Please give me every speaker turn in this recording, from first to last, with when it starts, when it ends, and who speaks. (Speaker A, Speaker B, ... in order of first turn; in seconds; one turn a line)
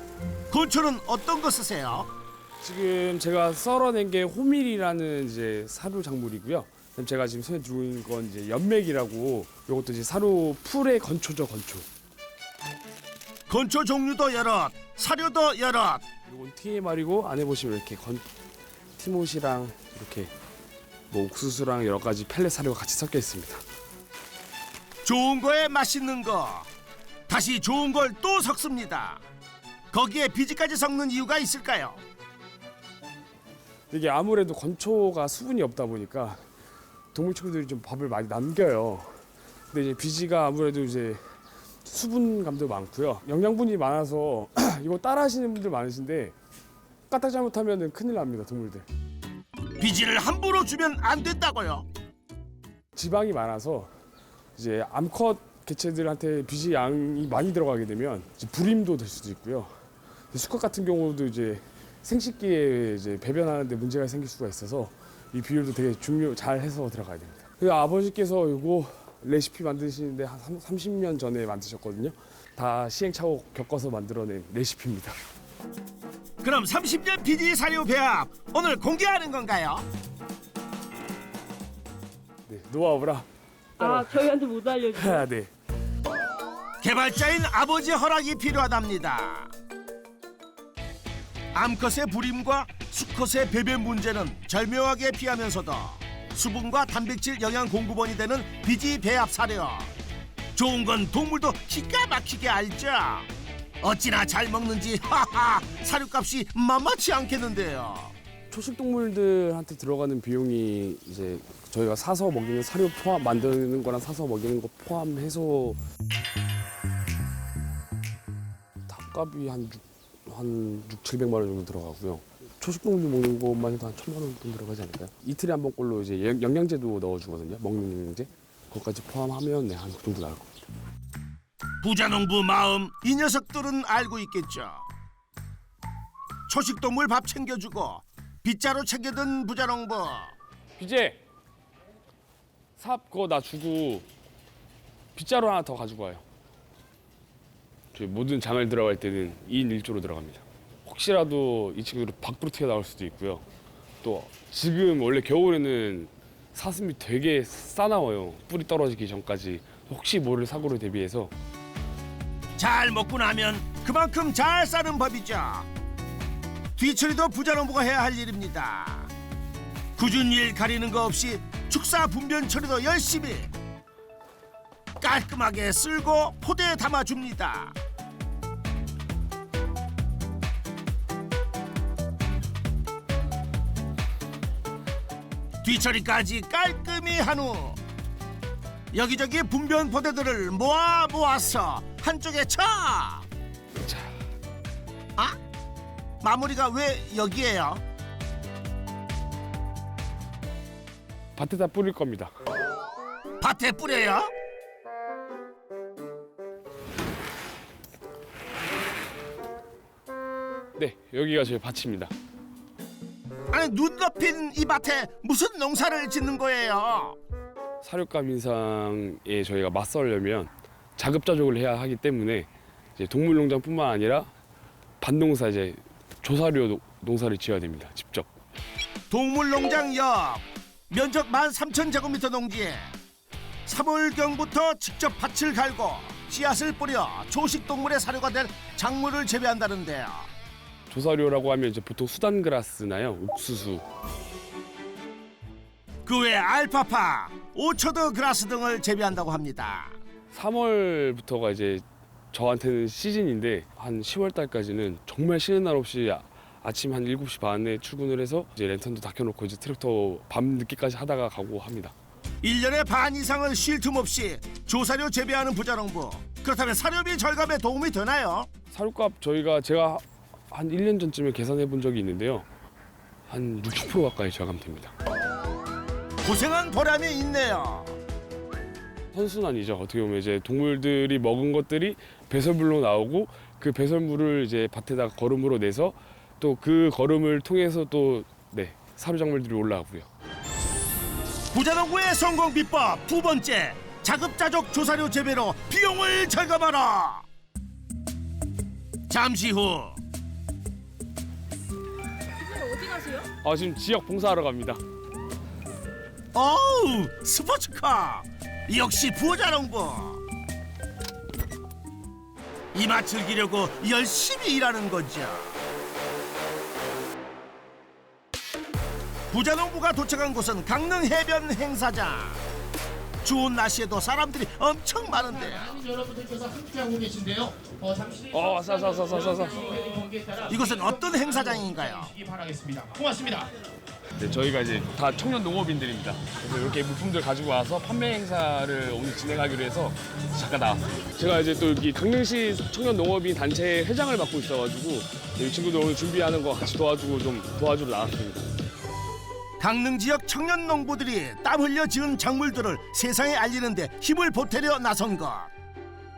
Speaker A: 0.5-2.1
Speaker B: 2.6-11.9
Speaker A: 13.5-16.0
Speaker B: 16.3-18.2
Speaker B: 19.0-20.3
Speaker B: 21.1-23.6
Speaker A: 25.0-26.7
Speaker A: 27.3-29.2
Speaker A: 29.9-32.0
Speaker B: 33.9-36.4
Speaker B: 37.1-39.2
Speaker B: 39.7-41.2
Speaker B: 41.8-46.4
Speaker B: 47.1-48.9
Speaker A: 49.8-51.9
Speaker B: 53.0-53.9
Speaker B: 54.6-59.7
Speaker B: 60.3-75.2
Speaker A: 76.4-79.8
Speaker B: 82.5-83.3
Speaker B: 83.8-84.2
Speaker C: 83.8-85.3
Speaker B: 84.9-85.5
Speaker A: 86.8-89.5
Speaker A: 91.5-99.9
Speaker A: 100.6-103.3
Speaker A: 103.8-108.1
Speaker B: 108.5-115.8
Speaker B: 118.9-130.6
Speaker A: 131.8-134.8
Speaker A: 136.5-140.3
Speaker B: 140.8-141.2
Speaker B: 142.8-144.1
Speaker B: 145.2-146.2
Speaker B: 147.9-153.4
Speaker B: 154.0-161.3
Speaker A: 162.6-165.7
Speaker A: 166.8-169.1
Speaker A: 170.0-173.5
Speaker A: 175.0-177.8
Speaker A: 185.6-187.8
Speaker A: 188.9-193.3
Speaker B: 193.8-194.1
Speaker A: 196.2-197.8
Speaker B: 201.3-202.3
Speaker A: 203.4-204.3
Speaker B: 210.8-212.1
Speaker A: 213.5-217.2
Speaker B: 217.8-224.3
Speaker B: 225.0-228.3
Speaker A: 229.1-232.9
Speaker A: 233.7-240.3
Speaker B: 240.9-243.8
Speaker A: 246.1-250.0
Speaker B: 250.3-261.9
Speaker A: 262.4-268.5
Speaker B: 268.7-272.5
Speaker B: 273.3-274.9
Speaker A: 276.2-277.9
Speaker B: 279.1-290.1
Speaker A: 291.5-297.2
Speaker A: 299.1-300.0
Speaker C: 302.4-303.2
Speaker B: 303.4-304.8
Speaker A: 306.3-310.2
Speaker A: 312.7-315.6
Speaker A: 319.3-322.4
Speaker A: 323.2-325.8
Speaker D: 325.6-333.5
Speaker B: 328.3-329.8
Speaker A: 330.5-332.1
Speaker B: 334.2-348.4
Speaker A: 349.6-355.5